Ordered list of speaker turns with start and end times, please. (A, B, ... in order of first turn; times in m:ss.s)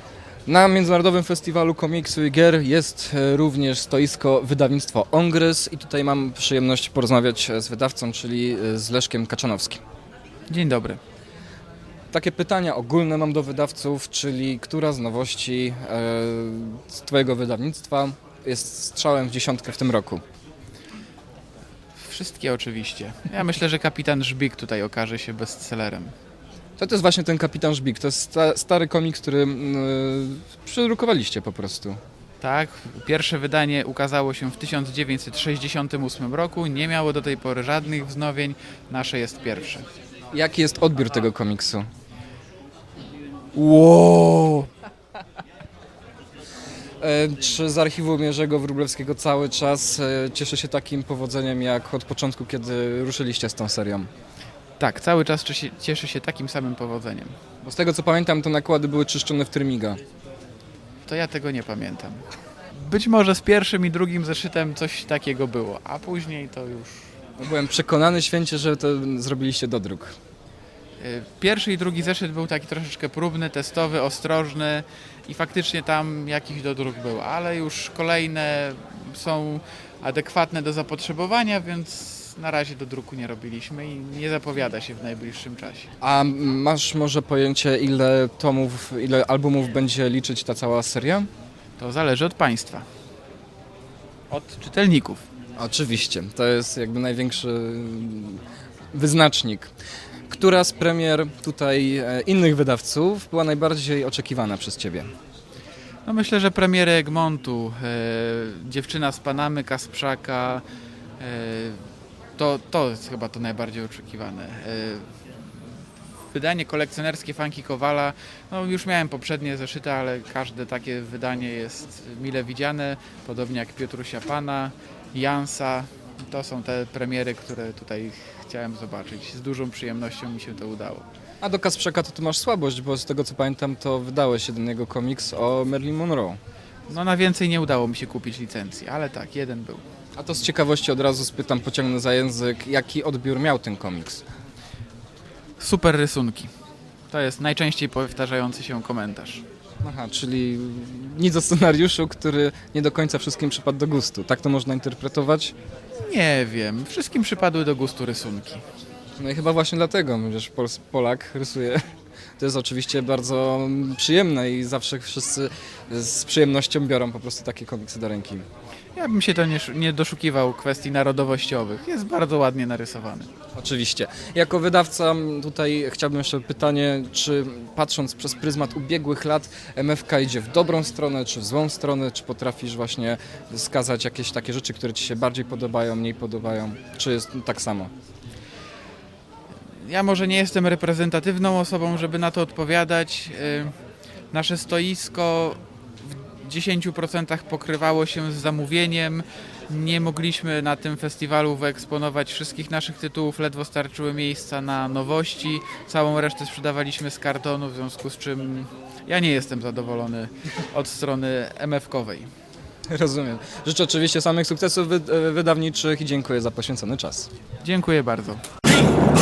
0:00.5-0:09.8 A
0:10.5-0:11.0 B
0:12.1-0:20.2 A
0:22.0-0:26.1 B
0:26.8-0:32.0 A
0:32.4-0:39.8 B
0:40.3-0:41.9 A
0:43.6-0:44.7 A
0:47.0-0:54.1 A
0:54.8-0:57.4 B
0:57.6-1:00.0 A
1:01.0-1:07.2 B
1:07.4-1:10.2 A
1:11.0-1:25.9 B
1:26.0-1:31.3 A
1:31.8-1:32.9 B
1:34.3-1:35.2 B
1:35.6-1:39.7 A
1:40.3-1:45.1 A
1:46.0-1:50.6 B
1:51.2-1:51.8 B
1:52.4-1:55.1 B
1:56.3-2:11.1 B
2:11.4-2:16.4 A
2:16.9-2:19.8 B
2:20.2-2:24.2 A
2:25.6-2:26.5 B
2:27.1-2:29.4 B
2:29.8-2:35.6 A
2:36.0-2:38.6 B
2:39.2-2:41.8 A
2:42.4-2:48.5 A
2:49.0-2:53.3 B
2:53.6-3:07.9 A
3:09.8-3:13.7 B
3:14.3-3:32.3 B
3:32.9-3:37.3 A
3:37.6-3:38.4 B